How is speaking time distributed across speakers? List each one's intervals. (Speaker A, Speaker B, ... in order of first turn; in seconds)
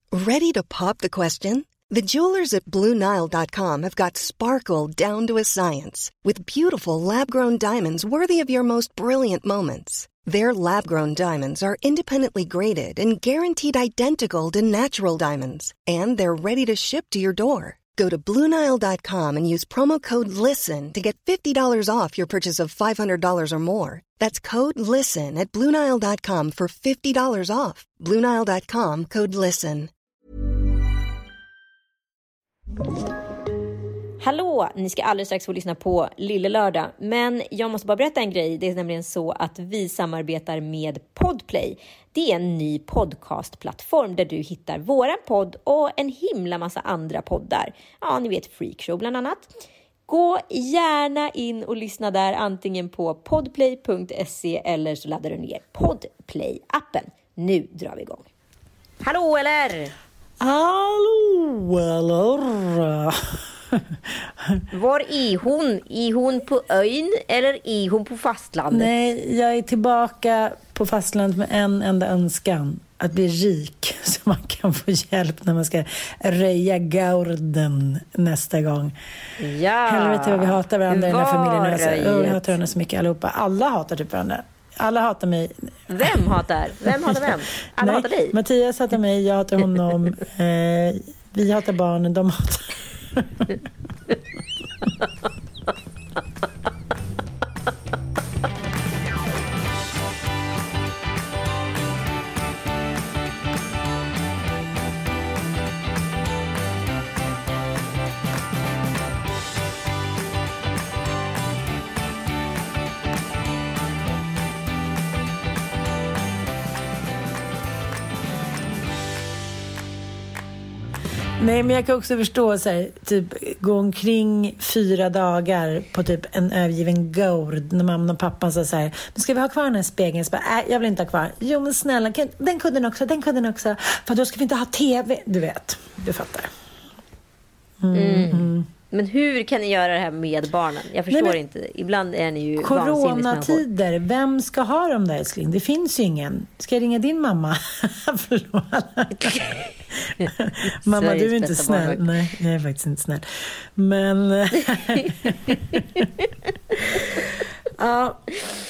Speaker A: 0.1-29.9
Speaker B: 34.2-49.5, 50.1-58.3, 59.0-59.9, 64.7-68.9, 79.4-82.6, 85.9-88.4, 137.9-143.6, 149.2-149.5, 150.9-152.1, 154.6-156.0
Speaker C: 60.4-64.6, 68.7-78.9, 79.8-85.7, 86.9-93.5, 121.4-136.5, 137.8-138.7, 141.1-141.4, 142.6-156.1, 156.8-158.3